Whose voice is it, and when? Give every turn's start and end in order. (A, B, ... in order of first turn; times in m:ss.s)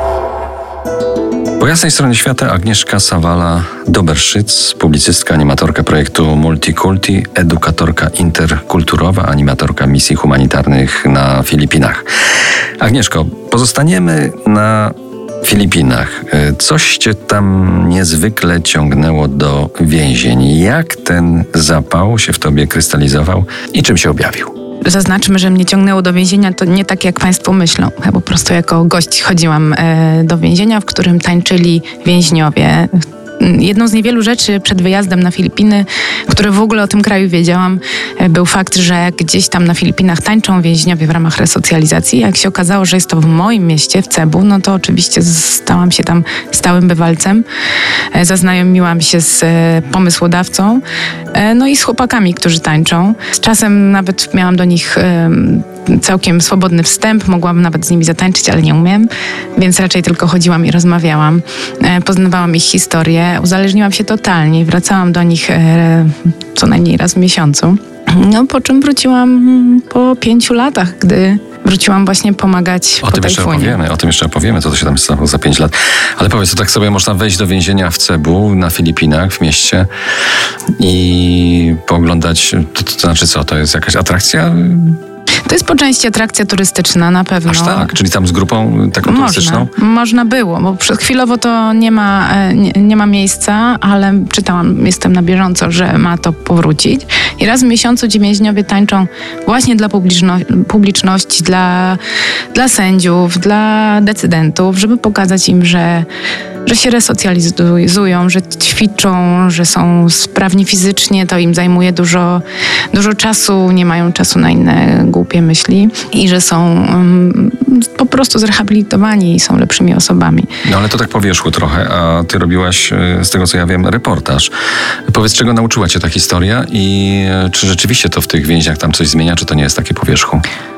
0:01.6-0:12.0 A
0:12.8-0:24.5 A
0:24.8-0:47.4 B
0:48.1-0:50.8 B
0:51.3-1:13.8 B
1:13.0-1:19.9 A
1:20.8-1:25.0 A
1:25.5-1:27.9 B
1:27.5-1:29.7 A
1:29.0-1:42.0 B
1:42.5-1:46.1 B
1:46.6-2:00.5 B
2:00.6-2:04.5 A
2:05.1-2:10.4 A